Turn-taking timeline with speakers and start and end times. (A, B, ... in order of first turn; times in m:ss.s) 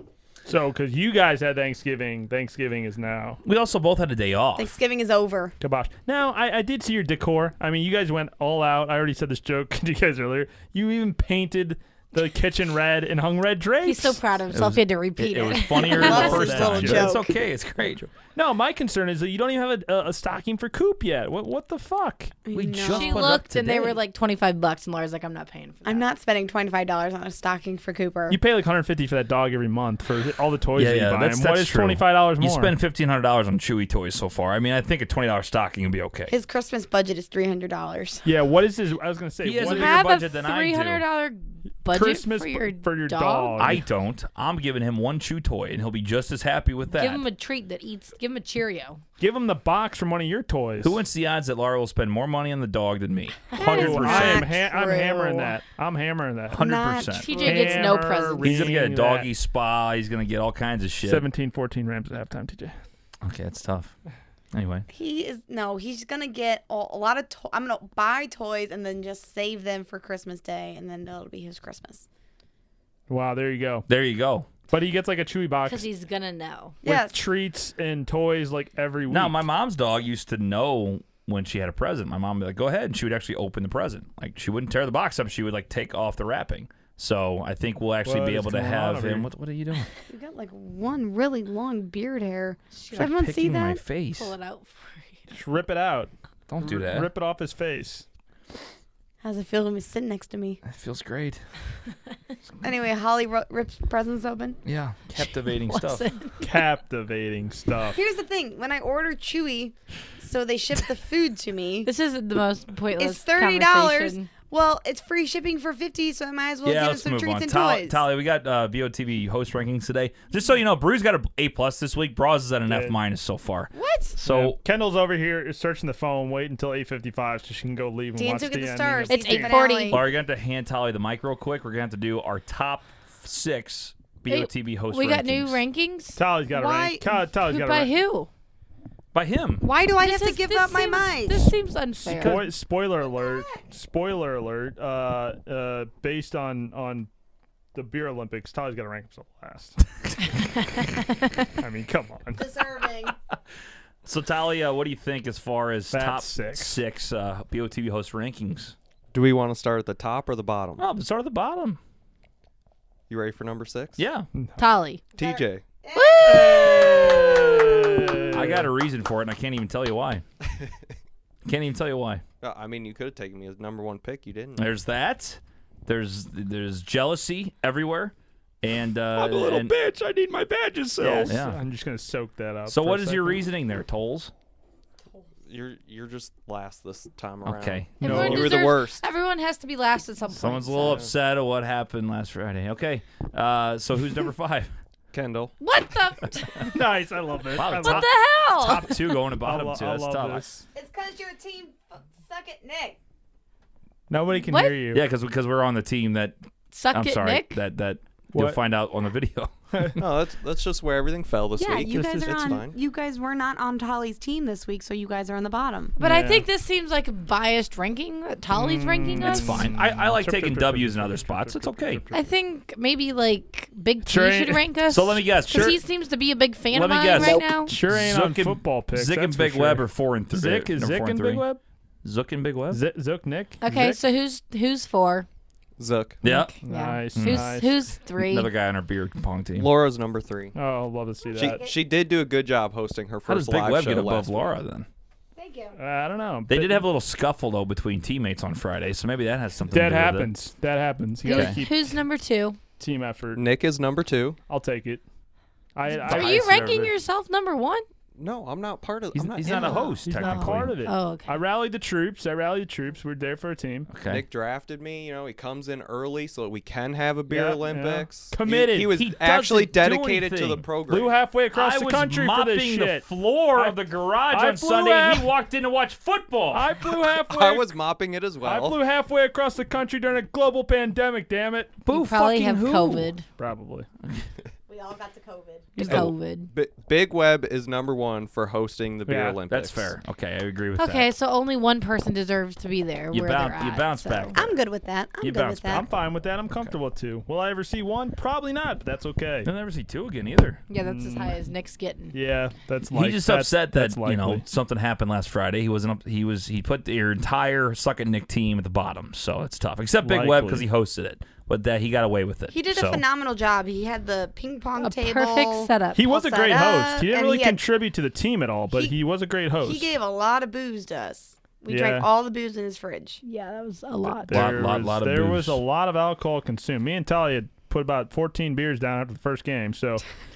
0:00.4-0:03.4 A
0:03.4-0:04.7 B
0:04.6-0:05.5 C
0:05.6-0:14.2 A
0:13.8-0:16.4 D
0:14.5-0:18.1 B
0:15.8-0:17.4 C
0:15.9-0:17.1 A
0:18.2-0:22.4 A
0:22.4-0:23.3 C
0:22.5-0:24.0 B
0:22.9-0:26.0 D
0:25.8-0:28.4 C
0:28.3-0:32.7 A
0:30.7-0:36.3 B
0:36.3-0:38.2 C
0:38.2-0:40.3 A
0:39.4-0:41.0 B
0:39.6-0:43.8 D
0:41.9-0:43.8 A
0:43.6-0:47.2 B
0:46.9-0:49.0 D
0:49.2-0:51.0 A
0:50.8-0:54.5 B
0:53.5-0:55.5 C
0:53.5-0:56.6 A
0:53.7-0:54.1 D
0:56.5-0:57.8 B
0:56.5-0:57.8 C
0:57.1-0:58.7 D
0:57.4-0:59.3 A
0:58.4-1:01.2 B
1:01.0-1:02.7 A
1:03.2-1:03.9 B
1:04.5-1:04.9 B
1:04.9-1:12.0 C
1:13.1-1:13.9 A
1:13.9-1:14.5 B
1:14.7-1:15.8 A
1:15.6-1:16.8 D
1:16.8-1:17.2 C
1:16.8-1:19.4 A
1:19.1-1:29.9 B
1:28.0-1:29.3 A
1:30.1-1:33.8 C
1:32.8-1:33.0 D
1:32.9-1:34.3 B
1:34.2-1:35.2 D
1:35.3-1:38.0 A
1:36.5-1:37.1 B
1:39.2-1:40.6 C
1:40.6-1:41.4 B
1:42.6-1:44.6 C
1:44.6-1:46.0 B
1:45.6-1:46.5 D
1:46.4-1:48.0 A
1:47.9-1:51.9 C
1:51.8-1:54.3 D
1:53.0-1:58.0 C
1:56.6-2:04.6 B
2:02.7-2:02.9 A
2:03.7-2:04.2 C
2:04.2-2:09.6 A
2:08.2-2:10.0 C
2:09.1-2:10.0 D
2:09.9-2:15.6 B
2:14.2-2:16.2 D
2:16.2-2:17.9 A
2:16.5-2:17.0 C
2:17.4-2:18.3 D
2:19.1-2:19.6 B
2:19.6-2:21.5 C
2:20.0-2:22.5 D
2:22.0-2:27.1 A
2:23.0-2:23.6 C
2:27.7-2:29.8 A
2:31.6-2:32.4 A
2:32.4-2:33.1 C
2:34.0-2:38.7 B
2:35.9-2:36.8 A
2:39.1-2:40.8 E
2:40.8-2:41.8 B
2:43.1-2:44.0 E
2:44.0-2:44.3 B
2:44.6-2:45.0 D
2:45.2-2:45.6 E
2:45.2-2:48.3 C
2:45.9-2:47.1 D
2:46.2-2:48.7 A
2:48.3-2:50.2 B
2:51.4-2:52.2 B
2:52.4-2:54.7 E
2:54.6-2:59.8 B
2:59.1-3:03.4 A
3:01.0-3:01.6 B
3:02.7-3:04.3 B
3:05.5-3:09.0 E
3:07.4-3:08.4 B
3:08.0-3:11.0 D
3:08.0-3:08.6 A
3:10.3-3:14.7 B
3:15.1-3:15.5 E
3:15.6-3:16.7 D
3:16.6-3:18.1 A
3:17.5-3:20.4 B
3:17.6-3:19.0 D
3:18.8-3:20.6 A
3:20.7-3:23.0 C
3:24.1-3:25.0 A
3:24.4-3:24.8 D
3:24.9-3:26.4 B
3:26.7-3:27.6 D
3:26.9-3:29.5 B
3:28.3-3:28.6 A
3:29.7-3:30.0 A
3:30.0-3:32.8 E
3:31.6-3:35.9 C
3:31.9-3:32.6 A
3:36.0-3:36.4 A
3:36.0-3:39.7 D
3:38.5-3:42.3 A
3:39.2-3:42.0 B
3:42.1-3:47.7 D
3:44.0-3:44.6 A
3:44.9-3:45.8 B
3:45.5-3:45.8 A
3:46.7-3:51.4 B
3:47.4-3:51.6 A
3:52.0-3:52.8 B
3:52.7-3:54.0 A
3:53.6-3:55.3 D
3:55.8-3:56.2 E
3:56.2-3:56.5 B
3:56.2-3:58.5 D
3:56.6-3:57.8 A
3:57.1-3:57.5 B
3:58.2-3:59.7 B
3:59.6-4:00.5 E
4:00.5-4:01.6 A
4:01.3-4:01.9 C
4:01.3-4:04.5 E
4:03.2-4:04.9 B
4:05.4-4:05.8 C
4:05.8-4:06.8 A
4:06.5-4:10.3 B
4:09.7-4:11.9 A
4:11.2-4:12.6 D
4:11.3-4:11.6 B
4:12.8-4:13.4 A
4:13.3-4:14.4 E
4:14.5-4:15.0 A
4:15.7-4:16.6 A
4:15.9-4:17.8 D
4:16.0-4:16.9 B
4:18.2-4:20.0 E
4:19.1-4:20.7 B
4:19.5-4:21.4 D
4:20.0-4:23.9 A
4:23.9-4:24.2 B
4:24.0-4:31.2 E
4:27.3-4:29.0 A
4:28.9-4:30.6 B
4:30.9-4:35.3 A
4:31.5-4:36.7 B
4:36.5-4:37.7 A
4:37.1-4:38.8 E
4:38.4-4:41.8 A
4:41.8-4:43.1 B
4:41.9-4:43.2 D
4:43.4-4:43.9 A
4:44.7-4:46.0 C
4:45.8-4:46.5 D
4:45.9-4:49.9 E
4:49.1-4:49.4 A
4:49.5-4:51.1 B
4:50.8-4:54.4 D
4:53.1-4:54.5 B
4:54.3-4:55.9 C
4:55.2-4:55.9 B
4:55.7-4:59.5 A
4:59.4-5:00.6 B
5:00.7-5:02.1 D
5:00.8-5:01.4 A
5:02.1-5:04.4 A
5:02.9-5:13.0 B
5:10.0-5:10.6 A
5:12.5-5:17.6 C
5:14.8-5:16.0 D
5:15.9-5:19.9 A
5:19.6-5:23.2 C
5:21.7-5:22.1 A
5:23.2-5:24.5 D
5:24.0-5:30.0 A
5:24.3-5:25.6 B